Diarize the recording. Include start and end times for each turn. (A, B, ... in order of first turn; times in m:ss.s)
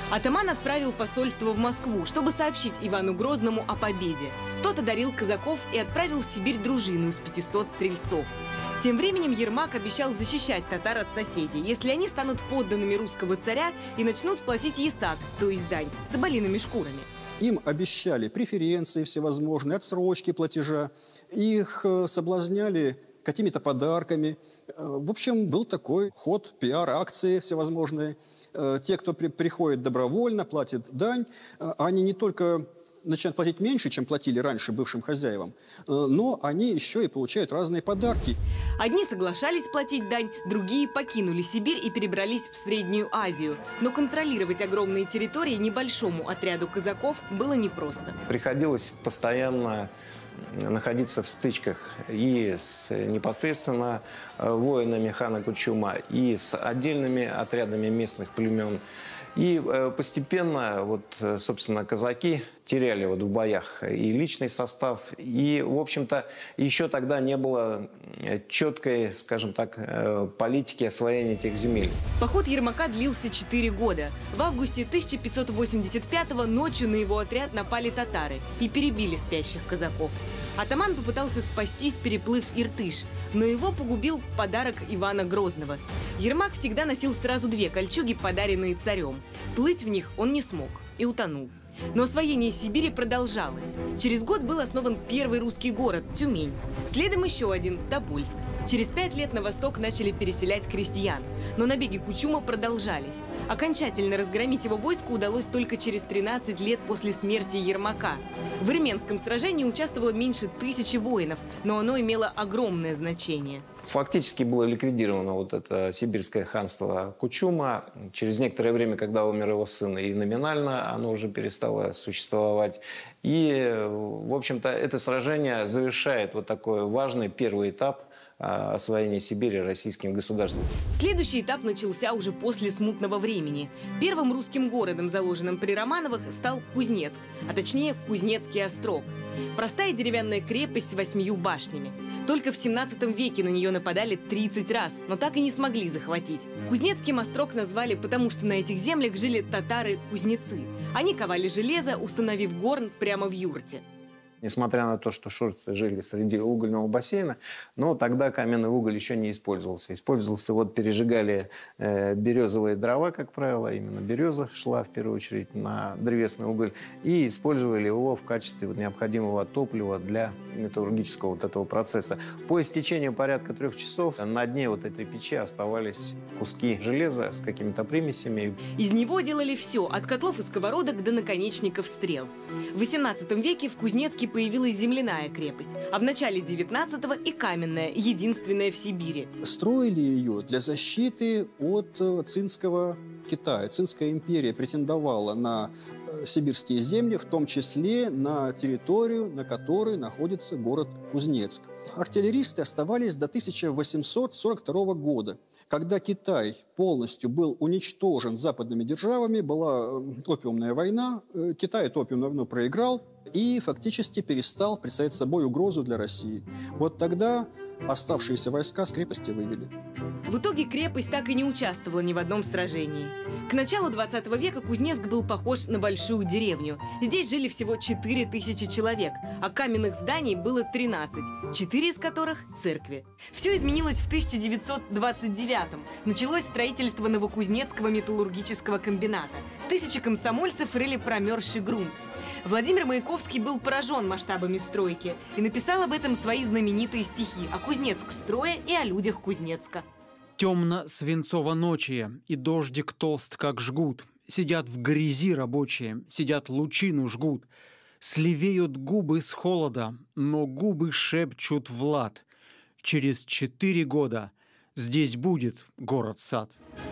0:00.1-0:17.1 A
0:17.4-0:38.4 B
0:38.8-0:48.2 A
0:48.3-0:49.9 C
0:50.4-0:58.8 C
0:59.4-1:12.0 C
1:12.2-1:53.6 A
1:53.8-2:10.6 C
2:10.9-2:33.8 A
2:34.4-2:58.6 C
2:58.8-3:09.3 A
3:09.4-3:39.7 B
3:40.3-4:09.8 A
4:10.4-4:17.5 D
4:18.0-4:22.2 D
4:22.8-4:26.5 D